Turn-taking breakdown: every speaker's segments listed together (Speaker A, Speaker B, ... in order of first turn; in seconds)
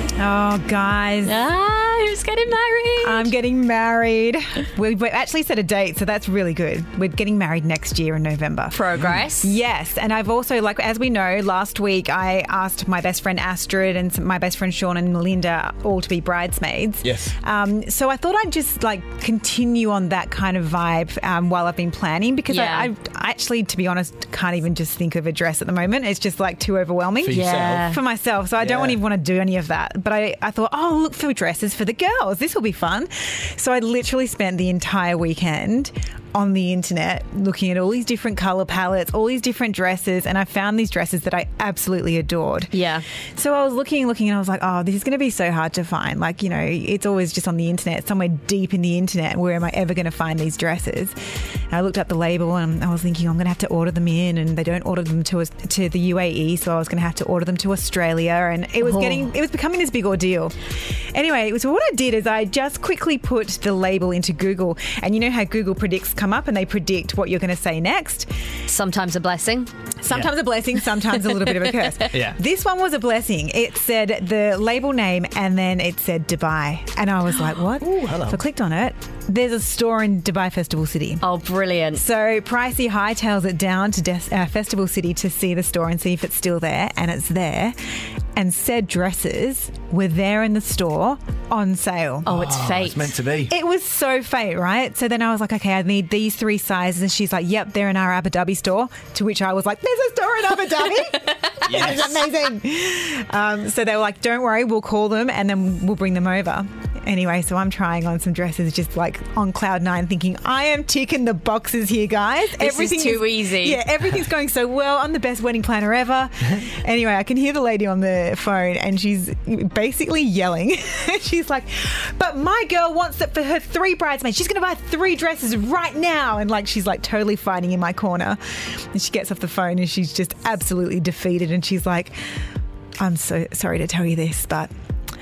Speaker A: 0.2-1.3, 3.0-8.8, 9.4-42.7, 43.4-51.1, 51.7-60.5, 61.1-68.3, 70.0-81.2, 81.9-87.8, 88.3-92.3, 93.5-132.2, 133.0-134.7
Speaker B: 1.2-3.3, 8.7-9.5, 22.5-22.9, 27.3-28.0, 42.7-43.0, 58.8-59.3, 68.7-69.7, 81.2-82.0, 92.3-93.1, 112.6-113.8
Speaker C: 9.0-9.3, 17.0-17.3, 27.2-27.9, 28.6-29.0, 72.1-72.4, 77.8-78.4, 92.2-93.5, 101.7-102.1